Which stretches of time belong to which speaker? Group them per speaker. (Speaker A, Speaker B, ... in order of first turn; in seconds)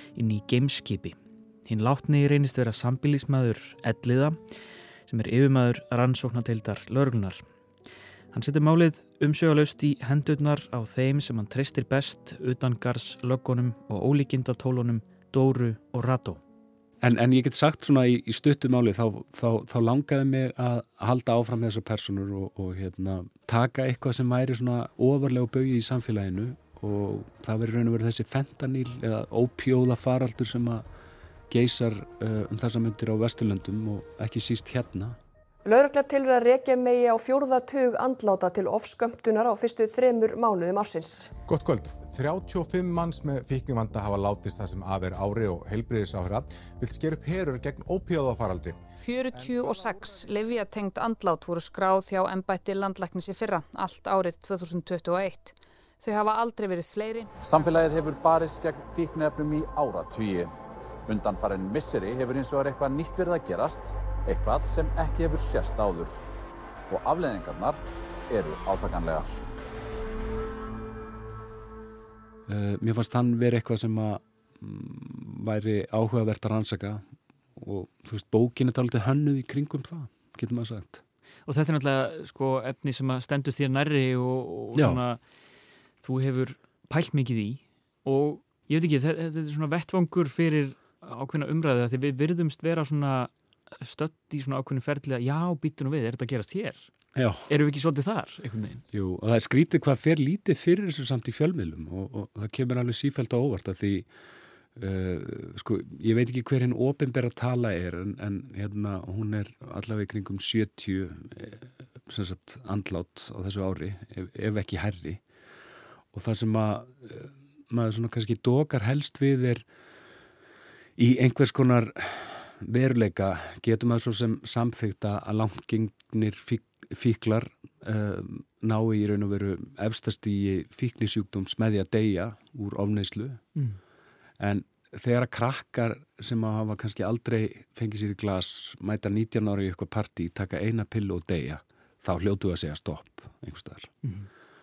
Speaker A: 0.2-1.1, 1.7-4.4, 5.1-7.4, 8.3-16.4, 81.5-85.2, 86.0-96.9, 97.5-98.8, 133.6-133.8, 144.0-144.3
Speaker B: 17.0-30.9, 31.5-35.2, 72.5-77.0, 77.6-81.0, 84.8-85.0, 97.2-97.5, 98.9-104.1, 104.8-115.2, 116.1-119.7, 121.0-133.4, 134.4-143.9
Speaker C: 35.6-41.3
Speaker D: 41.5-48.8, 49.4-50.1
Speaker E: 49.0-57.3
Speaker F: 57.4-60.5, 61.1-66.2, 66.9-69.4